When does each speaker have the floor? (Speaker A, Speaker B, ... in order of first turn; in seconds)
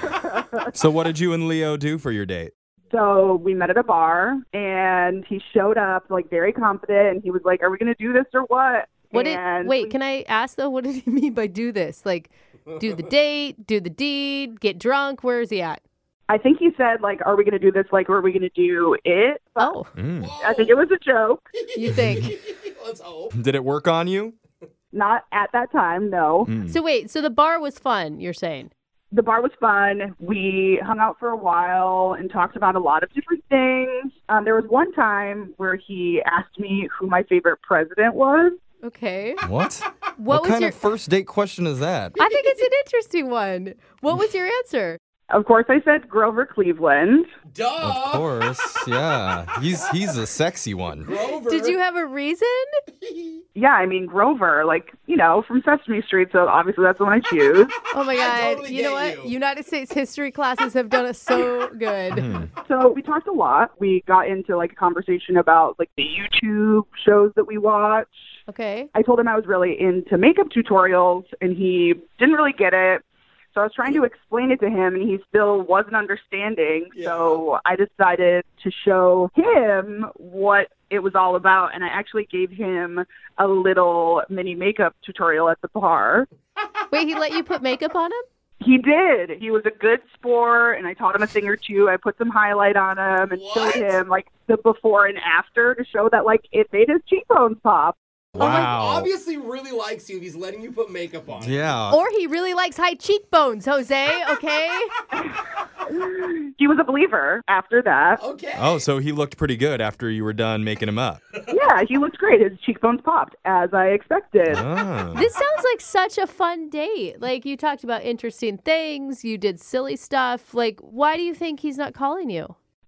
Speaker A: 0.7-2.5, 19.9-20.3, 23.3-24.3, 26.4-26.8, 39.4-42.2, 47.8-51.1, 62.1-62.5, 98.3-99.1, 101.4-102.0, 108.5-111.2, 114.5-115.3
Speaker B: 2.9-9.9, 16.3-19.8, 20.4-21.4, 24.9-26.5, 29.1-38.6, 45.3-47.3, 53.5-57.8, 62.6-68.1, 68.9-86.3, 88.6-98.0, 105.9-108.2, 111.5-114.6
Speaker C: 9.1-15.8, 19.6-19.9, 21.7-22.3, 26.6-28.7, 38.8-39.4, 40.2-40.8, 42.2-45.0, 51.4-52.8, 57.9-62.3, 68.5-68.9, 86.9-88.2, 98.4-98.7, 101.9-104.9, 115.1-122.5
Speaker D: 12.7-13.1, 20.2-20.8, 21.6-23.4, 47.5-48.4, 51.0-51.8, 53.0-53.4, 58.1-59.3, 76.9-77.4, 93.3-94.0, 98.3-101.8, 108.2-108.8